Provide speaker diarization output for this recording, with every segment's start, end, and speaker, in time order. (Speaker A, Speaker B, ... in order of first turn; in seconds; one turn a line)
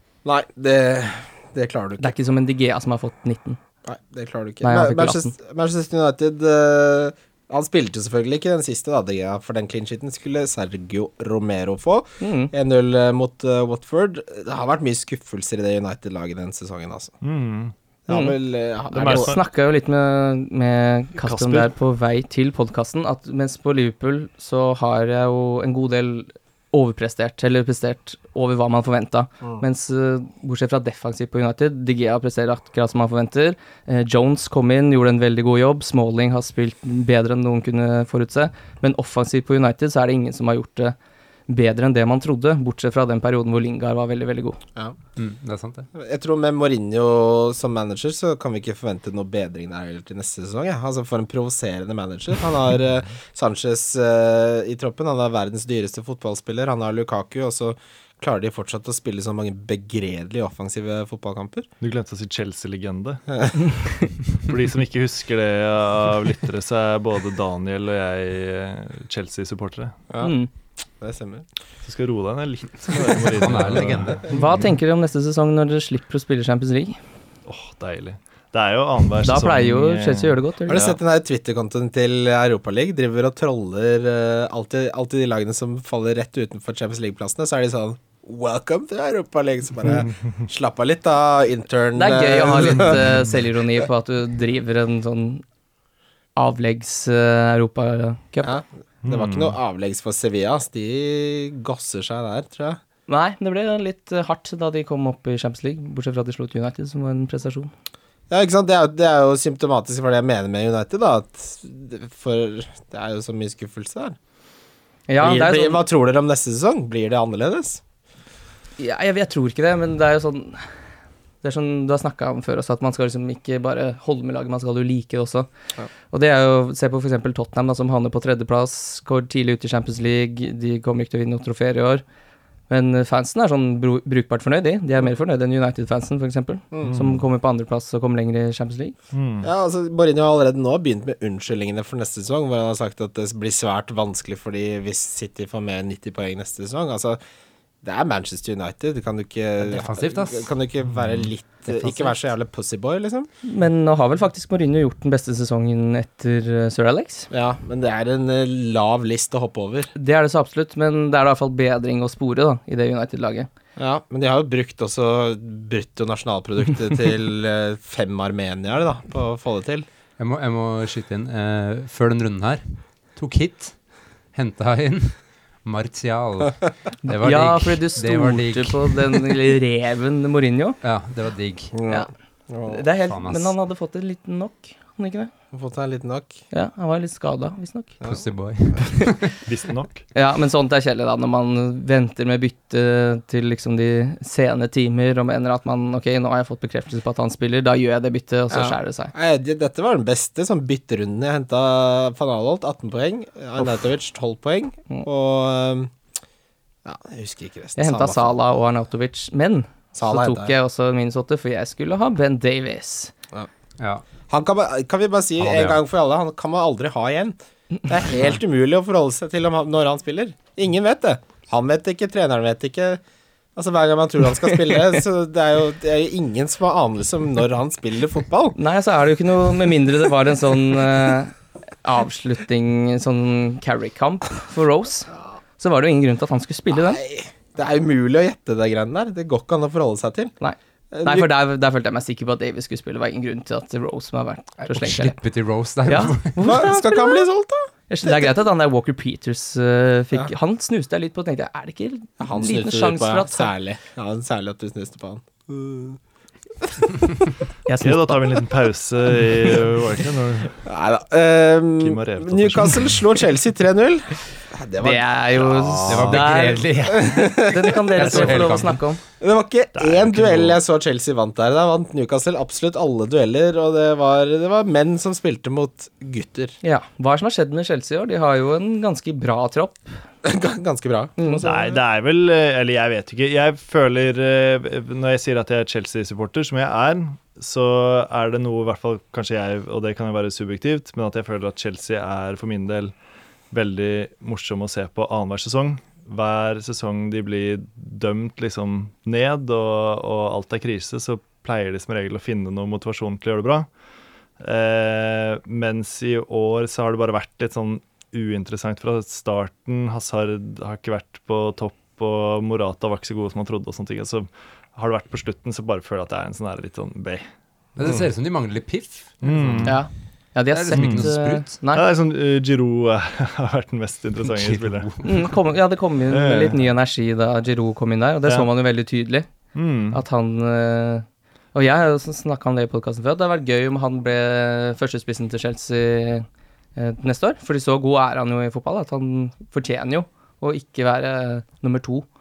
Speaker A: 0.2-2.1
Speaker B: 2.0-3.6
Speaker A: 3.8-17.1
Speaker B: 4.6-5.3
Speaker B: 12.2-12.5
Speaker C: 17.2-17.7
Speaker A: 18.1-19.3
Speaker B: 18.1-18.4
Speaker B: 18.9-41.0
Speaker C: 18.9-19.4
Speaker C: 21.2-21.7
Speaker B: 41.5-44.6
Speaker D: 45.1-45.9
Speaker A: 45.9-61.7
Speaker C: 61.8-63.2
Speaker C: 64.4-69.9
Speaker B: 70.2-70.5
Speaker A: 71.0-71.5
Speaker C: 71.8-74.7
Speaker D: 73.3-74.4
Speaker B: 74.3-77.0
Speaker C: 77.5-81.0
Speaker B: 79.2-80.9
Speaker A: 80.7-93.3
Speaker B: 91.9-95.4
Speaker B: 96.3-98.5
Speaker A: 98.4-102.8
Speaker C: 99.0-99.5
Speaker B: 103.1-107.7
Speaker A: 108.3-114.2
Speaker B: 115.1-115.8
Speaker A: 115.2-117.8
Speaker B: 118.8-120.7
Speaker B: 121.4-125.5
Speaker B: 126.1-132.0
Speaker B: 132.7-138.9
Speaker A: 136.7-137.0
Speaker C: 136.8-137.2
Speaker C: 139.1-139.5
Speaker A: 139.4-147.2
Speaker A: 147.8-153.3
Speaker D: 149.6-150.5
Speaker C: 151.7-152.1
Speaker B: 153.4-157.3
Speaker A: 157.3-159.9
Speaker B: 159.9-163.5
Speaker A: 163.8-169.8
Speaker D: 170.2-173.8
Speaker D: 174.3-179.4
Speaker B: 177.0-180.8
Speaker D: 180.8-181.8
Speaker A: 181.7-182.8
Speaker B: 182.6-185.3
Speaker D: 183.1-183.5
Speaker A: 185.5-186.4
Speaker B: 186.5-188.0
Speaker D: 188.1-189.4
Speaker C: 189.4-190.0
Speaker B: 190.1-199.1
Speaker A: 198.5-205.9
Speaker A: 206.8-208.4
Speaker B: 207.8-213.1
Speaker A: 209.9-210.5
Speaker D: 213.8-214.1
Speaker A: 214.3-223.0
Speaker D: 215.4-215.8
Speaker A: 223.6-228.6
Speaker B: 228.6-237.0
Speaker A: 236.7-240.3
Speaker B: 240.4-245.2
Speaker A: 240.9-241.3
Speaker D: 244.6-246.6
Speaker B: 245.8-247.2
Speaker A: 246.4-248.3
Speaker B: 247.9-253.5
Speaker A: 252.2-256.0
Speaker A: 256.6-257.2
Speaker B: 257.6-258.3
Speaker C: 257.8-260.6
Speaker A: 260.6-268.6
Speaker C: 261.8-263.0
Speaker B: 264.8-266.7
Speaker D: 265.9-268.8
Speaker B: 267.4-269.0
Speaker A: 269.2-276.6
Speaker C: 269.7-270.6
Speaker B: 276.6-280.0
Speaker A: 280.2-281.8
Speaker B: 281.2-281.4
Speaker C: 281.4-292.9
Speaker C: 293.5-303.7
Speaker C: 304.4-317.3
Speaker D: 317.8-319.8
Speaker C: 317.8-318.1
Speaker C: 319.2-319.8
Speaker B: 319.6-321.8
Speaker D: 320.5-321.5
Speaker C: 320.8-321.1
Speaker C: 321.7-325.0
Speaker D: 324.2-325.4
Speaker B: 325.0-342.1
Speaker C: 326.1-326.6
Speaker C: 329.5-330.0